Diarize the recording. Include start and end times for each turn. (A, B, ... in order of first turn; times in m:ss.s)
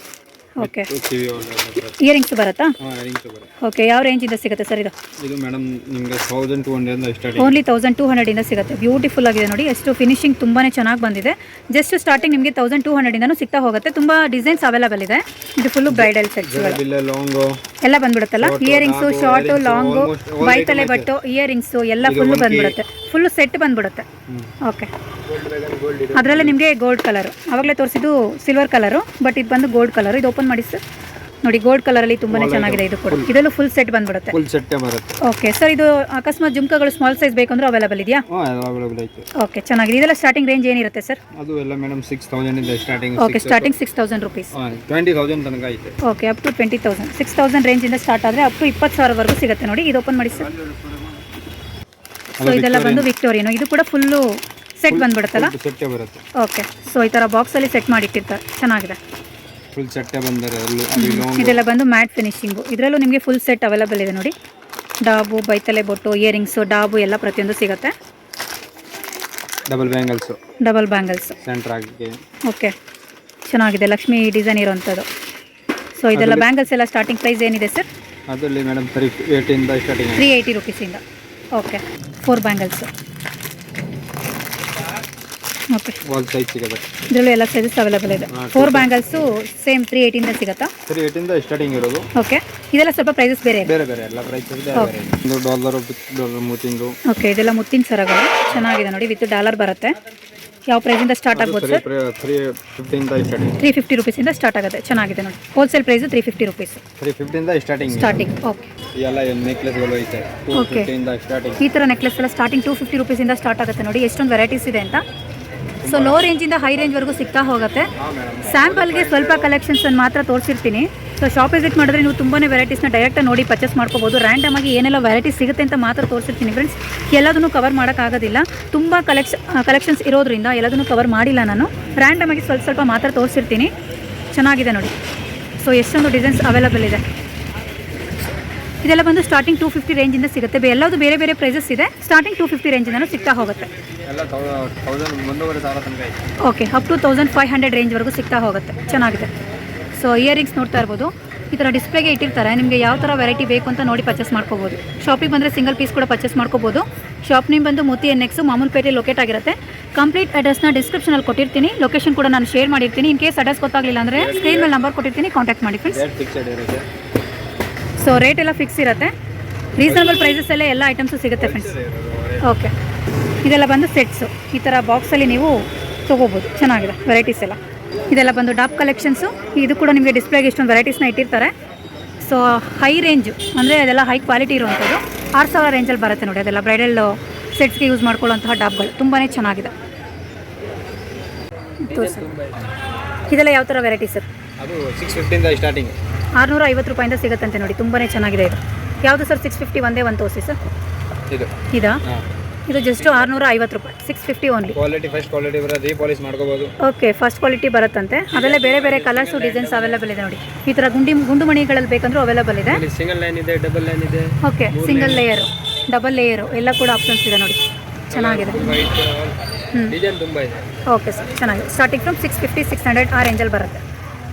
0:00.6-0:00.9 A
0:00.6-0:02.0 B
0:02.0-0:02.7 A
0:02.8-0:03.5 B
0:03.6-0:04.9 A
0:05.2-0:07.6 B
0:07.4-0:16.8 A
0:15.9-0:17.6 B
0:17.8-0:24.0 A
0:18.4-0:21.1 B
0:22.0-0:22.8 B
0:24.3-0:24.5 B
0:24.6-0:24.9 A
0:25.3-0:26.6 B
0:26.1-0:30.8 A
0:31.4-0:34.4 A
0:32.3-0:33.3 B
0:34.3-0:35.1 B
0:35.2-0:38.2 A
0:38.3-0:39.3 B
0:39.4-0:41.2 A
0:41.3-0:43.7 B
0:43.2-0:44.5 A
0:44.5-0:46.0 B
0:46.0-0:50.5 A
0:50.4-0:51.2 B
0:52.4-0:53.1 B
0:52.4-0:55.5 A
0:54.9-0:56.2 B
0:56.4-0:59.0 A
0:59.7-1:01.6 B
1:01.0-1:04.3 A
1:05.0-1:07.9 A
1:09.7-1:10.4 B
1:10.6-1:11.4 A
1:11.4-1:12.2 B
1:12.5-1:12.7 A
1:13.4-1:15.1 A
1:16.0-1:17.9 A
1:16.1-1:16.5 B
1:18.3-1:20.3 B
1:20.2-1:21.0 A
1:21.6-1:22.9 A
1:25.7-1:26.0 A
1:26.0-1:26.9 B
1:27.1-1:30.7 A
1:28.3-1:29.2 B
1:30.9-1:32.1 B
1:32.2-1:33.7 A
1:33.6-1:37.0 B
1:37.1-1:40.0 A
1:40.7-1:41.8 A
1:41.3-1:43.6 B
1:43.6-1:46.8 A
1:47.0-1:48.2 B
1:47.9-1:48.7 A
1:48.9-1:51.6 B
1:50.5-1:50.9 A
1:51.6-1:55.0 A
1:55.8-1:56.3 B
1:55.8-1:57.9 A
1:58.0-1:59.6 B
1:58.4-2:13.7 A
2:14.3-2:14.9 A
2:15.6-2:17.0 A
2:18.8-2:23.7 A
2:24.0-2:26.2 B
2:26.4-2:29.3 A
2:29.9-2:46.0 A
2:44.1-2:44.8 B
2:45.9-2:46.9 B
2:48.0-2:49.1 A
2:49.8-2:51.8 A
2:49.8-2:50.4 B
2:51.4-2:52.5 B
2:52.4-2:52.7 A
2:53.4-2:57.6 A
2:58.1-3:01.5 A
3:02.2-3:09.7 A
3:11.8-3:12.3 A
3:11.9-3:12.6 B
3:13.3-3:14.3 A
3:14.6-3:16.0 B
3:16.4-3:20.6 A
3:21.7-3:22.0 A
3:22.7-3:24.8 A
3:23.0-3:23.4 B
3:24.7-3:26.7 B
3:26.8-3:32.8 A
3:28.3-3:30.1 B
3:32.6-3:35.3 B
3:34.4-3:38.7 A
3:38.1-3:39.4 B
3:39.9-3:40.6 B
3:40.9-3:43.8 A